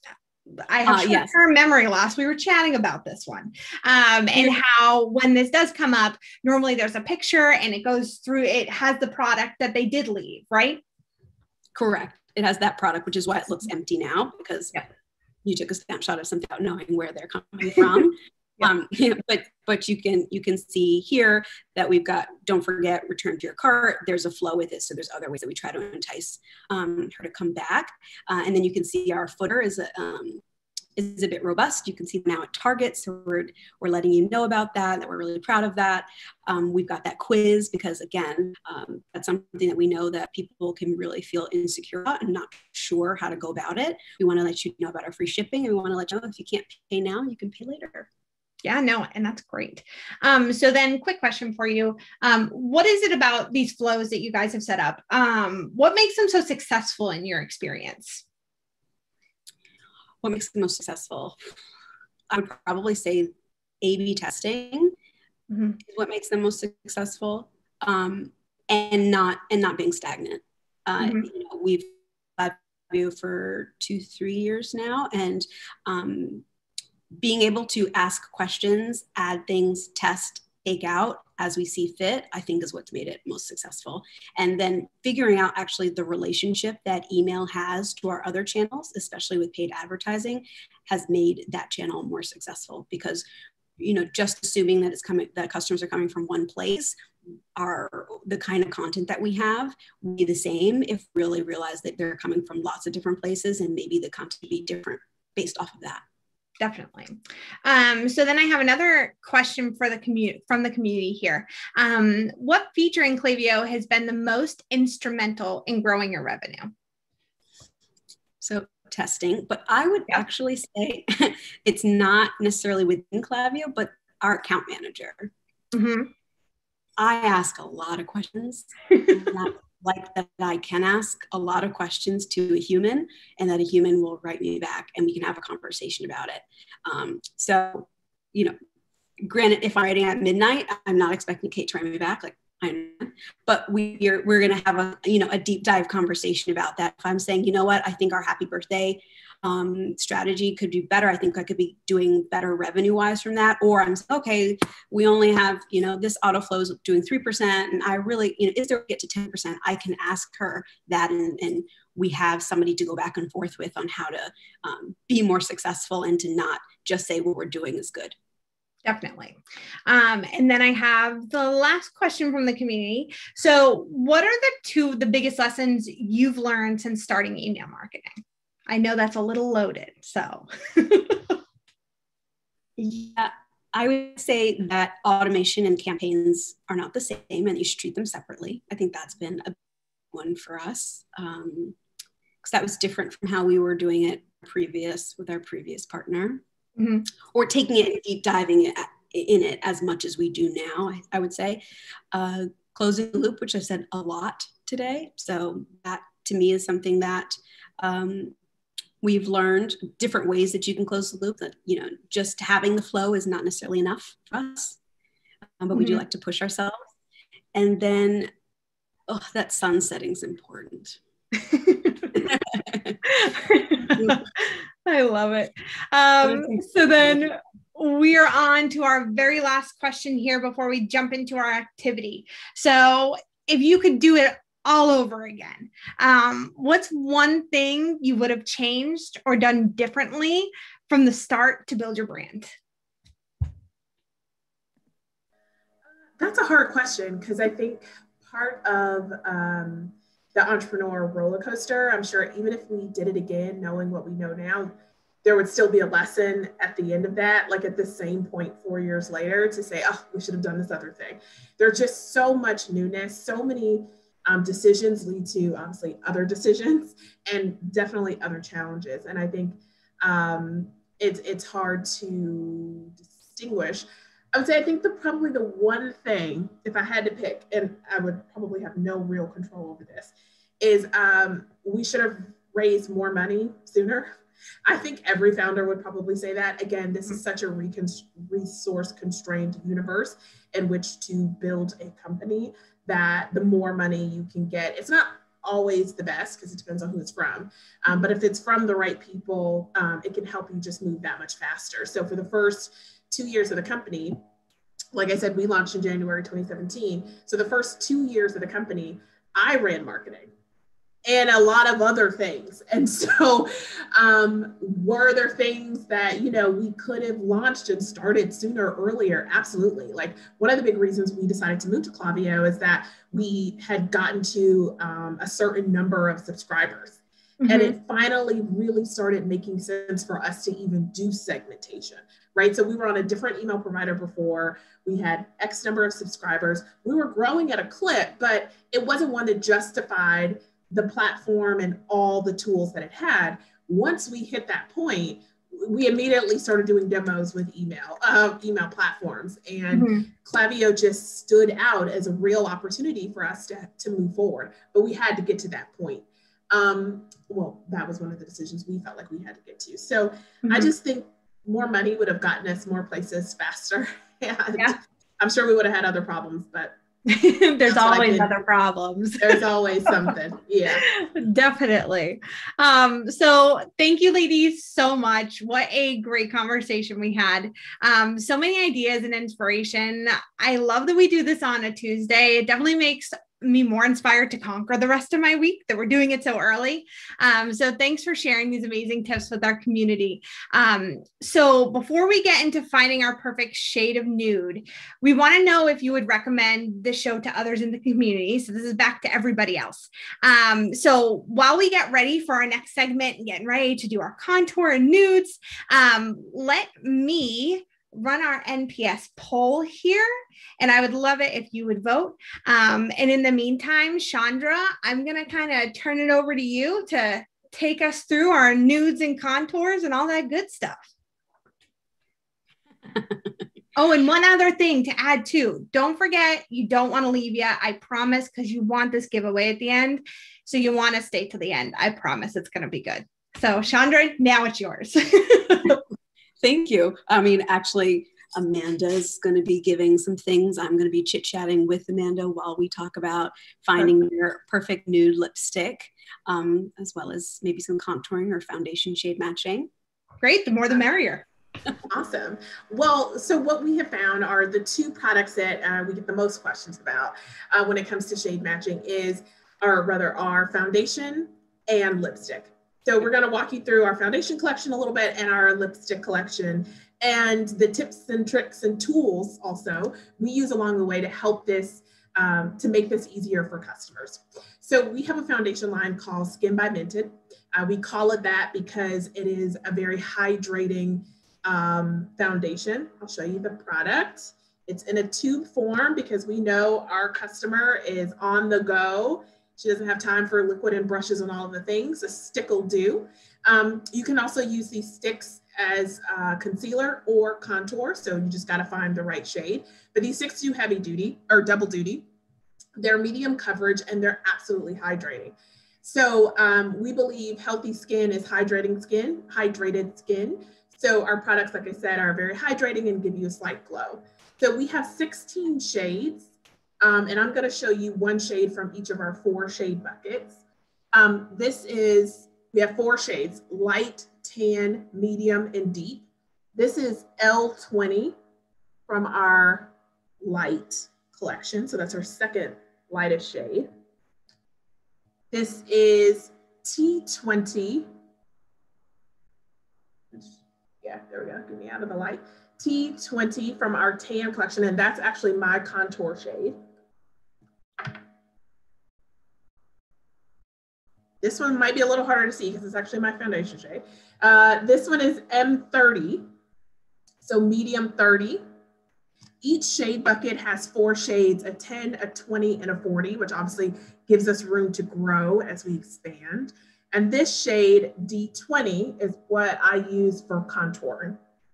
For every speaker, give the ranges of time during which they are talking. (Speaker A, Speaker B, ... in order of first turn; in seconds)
Speaker A: 0.5-10.8, 48.6-58.2, 65.5-65.8, 71.0-71.2, 106.6-116.7, 125.7-126.1, 168.8-169.3, 169.9-181.4, 196.8-197.0, 215.7-216.0, 221.4-222.1, 223.0-242.5, 327.4-327.7, 349.7-350.1, 367.1-370.1, 370.8-410.1, 410.6-420.9, 423.8-435.8, 450.2-451.2
Speaker B: 0.8-1.3, 11.7-14.8, 15.4-30.4, 30.9-48.1, 60.2-61.4, 62.3-64.9, 65.8-76.4, 77.2-93.2, 93.8-96.9, 97.5-106.0, 118.4-125.3, 127.0-138.6, 139.2-168.1, 182.8-189.5, 190.1-191.8, 192.4-196.4, 197.3-201.6, 202.1-208.3, 209.0-214.8, 215.6-216.8, 217.5-218.3, 219.1-221.0, 222.1-223.0, 223.8-224.2, 226.2-227.2, 436.4-449.7
Speaker C: 246.2-254.7, 255.2-284.1, 284.6-304.2, 304.9-310.3, 311.1-366.7, 367.7-368.3, 369.2-370.9, 451.9-502.1, 502.8-520.4, 520.9-528.2, 528.9-533.7, 535.3-537.9, 540.1-546.6, 551.2-556.2, 557.2-558.4, 559.4-571.2